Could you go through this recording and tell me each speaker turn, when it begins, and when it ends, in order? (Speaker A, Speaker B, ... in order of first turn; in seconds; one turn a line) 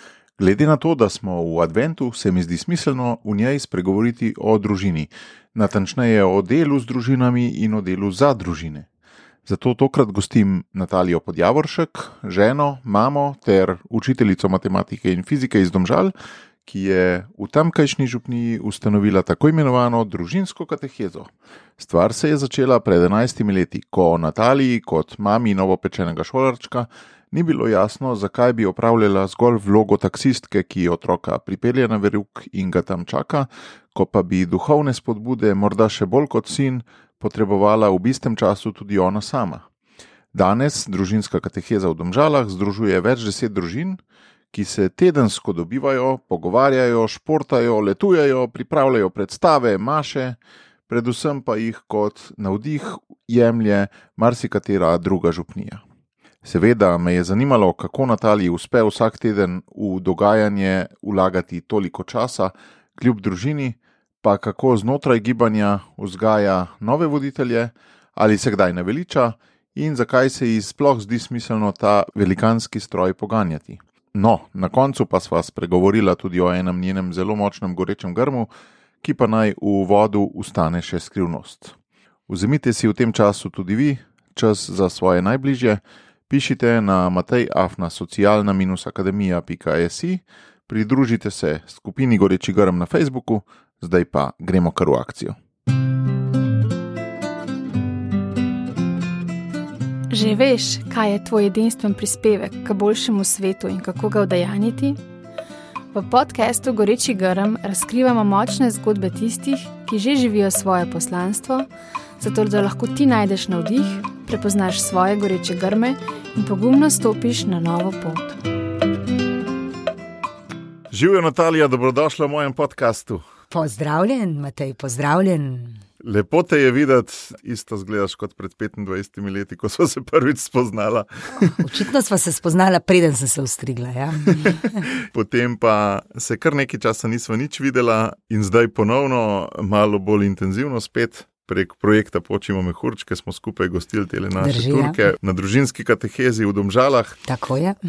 Speaker A: 0.4-8.9
Speaker A: 9.4-16.1
Speaker A: 16.6-39.6
Speaker A: 40.3-44.0
Speaker A: 44.5-50.4
Speaker A: 50.9-55.8
Speaker A: 56.4-78.5
Speaker A: 79.0-81.7
Speaker A: 82.3-95.4
Speaker B: 100.1-105.0
Speaker B: 105.9-111.7
Speaker B: 112.2-118.4
Speaker A: 120.9-123.2
Speaker C: 123.5-125.8
Speaker A: 126.0-131.6
Speaker C: 131.3-134.8
Speaker A: 134.4-147.2
Speaker C: 144.4-145.0
Speaker C: 147.2-147.8